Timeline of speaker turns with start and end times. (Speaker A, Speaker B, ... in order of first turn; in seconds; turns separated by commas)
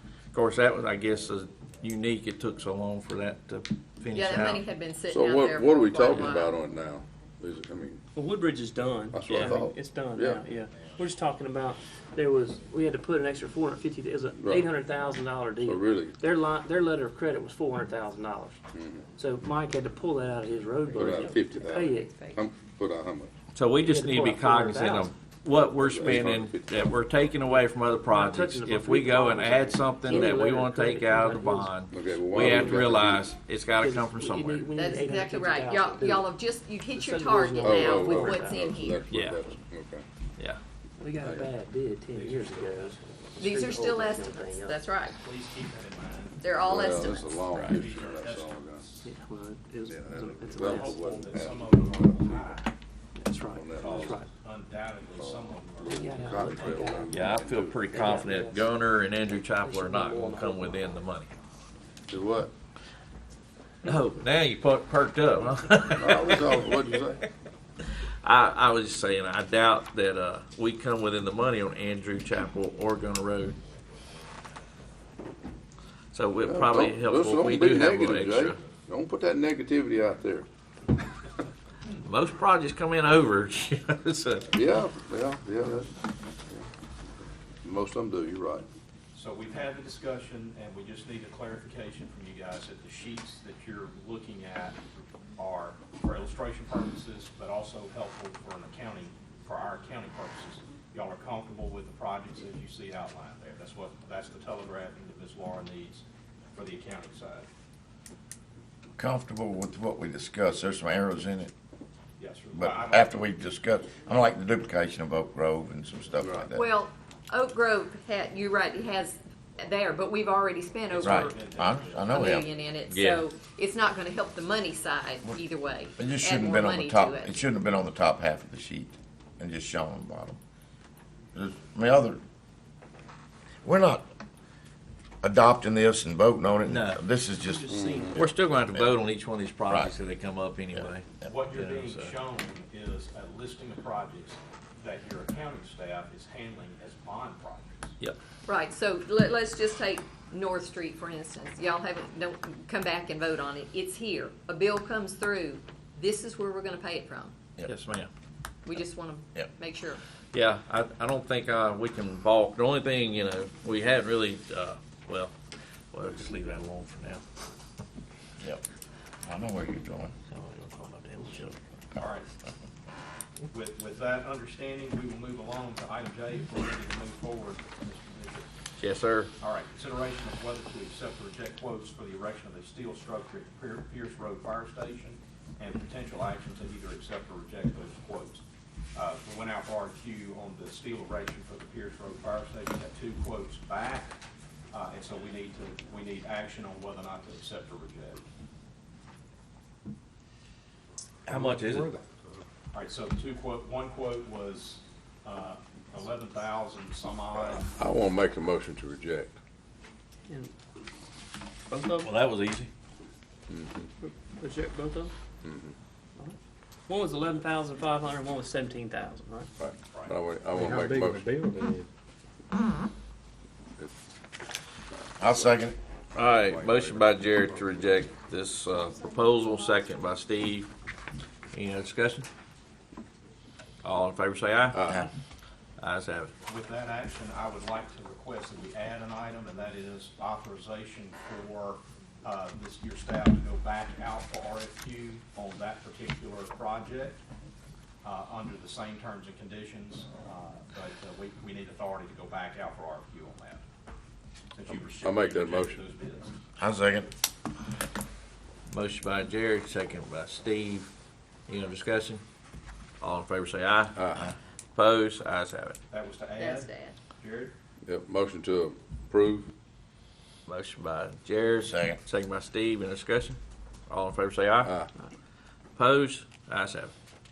Speaker A: 0.3-4.6, Speaker B: 4.1-6.5, Speaker C: 5.1-8.0, Speaker D: 8.1-18.6, Speaker C: 9.1-10.5, Speaker A: 9.3-9.5, Speaker C: 14.4-14.7, Speaker C: 15.6-16.2, Speaker C: 18.7-19.1, Speaker D: 19.1-22.3, Speaker C: 21.0-23.3, Speaker A: 23.5-34.7, Speaker D: 23.8-25.1, Speaker C: 25.6-27.3, Speaker D: 28.1-33.1, Speaker C: 31.8-33.3, Speaker D: 33.8-36.3, Speaker B: 34.8-39.0, Speaker D: 36.9-38.7, Speaker C: 37.6-40.0, Speaker A: 39.1-39.4, Speaker D: 41.0-44.8, Speaker C: 41.1-41.5, Speaker E: 42.1-43.0, Speaker B: 43.4-45.1, Speaker E: 45.1-46.9, Speaker B: 46.4-47.4, Speaker C: 46.6-49.0, Speaker A: 47.5-47.8, Speaker E: 47.6-49.1, Speaker D: 49.0-51.0, Speaker C: 49.9-52.6, Speaker E: 50.5-52.7, Speaker D: 53.1-54.3, Speaker C: 53.5-54.2, Speaker E: 53.8-57.0, Speaker C: 55.1-57.9, Speaker D: 55.8-57.2, Speaker A: 57.1-61.3, Speaker D: 57.8-58.7, Speaker D: 59.3-61.0, Speaker C: 62.1-62.5, Speaker A: 63.8-66.8, Speaker C: 66.0-67.2, Speaker A: 68.0-73.6, Speaker A: 76.1-78.6, Speaker C: 76.4-80.5, Speaker A: 82.0-84.5, Speaker C: 84.5-86.7, Speaker C: 87.6-88.7, Speaker E: 89.1-107.5, Speaker F: 109.0-111.5, Speaker E: 112.2-113.2, Speaker F: 112.5-116.7, Speaker C: 116.2-116.5, Speaker B: 116.5-121.3, Speaker E: 120.9-122.2, Speaker F: 121.0-122.5, Speaker B: 122.1-127.3, Speaker A: 122.9-123.2, Speaker F: 126.0-130.4, Speaker F: 131.3-132.2, Speaker F: 133.6-134.1, Speaker F: 135.2-137.7, Speaker A: 136.6-137.0, Speaker E: 137.4-138.2, Speaker C: 137.7-138.3, Speaker A: 138.1-142.1, Speaker F: 140.8-141.3, Speaker E: 141.2-147.9, Speaker B: 148.4-157.3, Speaker A: 157.6-158.1, Speaker B: 158.7-160.0, Speaker A: 160.3-165.3, Speaker A: 165.9-167.2, Speaker F: 169.2-170.1, Speaker A: 170.3-171.6, Speaker E: 172.0-172.3, Speaker E: 173.5-178.5, Speaker A: 178.8-179.3, Speaker E: 179.4-188.4, Speaker E: 188.9-194.2, Speaker E: 194.7-198.2, Speaker A: 201.2-201.9, Speaker E: 202.7-207.7, Speaker C: 207.5-209.3, Speaker D: 211.7-212.1, Speaker A: 212.0-212.7, Speaker C: 213.5-213.9, Speaker D: 214.0-215.1, Speaker C: 215.4-215.7, Speaker D: 216.9-219.5, Speaker C: 219.6-221.4, Speaker E: 219.8-220.2, Speaker F: 225.2-225.8, Speaker C: 226.1-227.2, Speaker A: 226.1-230.7, Speaker A: 231.5-232.3, Speaker A: 233.8-234.9, Speaker C: 234.7-235.1, Speaker A: 235.8-236.3, Speaker E: 236.5-247.2, Speaker E: 248.0-253.6, Speaker E: 254.5-256.3, Speaker C: 254.9-255.8, Speaker F: 256.6-257.1, Speaker A: 258.7-260.9, Speaker A: 261.5-262.2, Speaker A: 263.0-264.2, Speaker C: 264.0-264.3, Speaker A: 264.7-265.8, Speaker E: 265.9-267.5, Speaker B: 266.4-267.0, Speaker C: 267.8-269.5, Speaker A: 270.4-274.8, Speaker F: 271.6-272.0, Speaker A: 275.8-276.9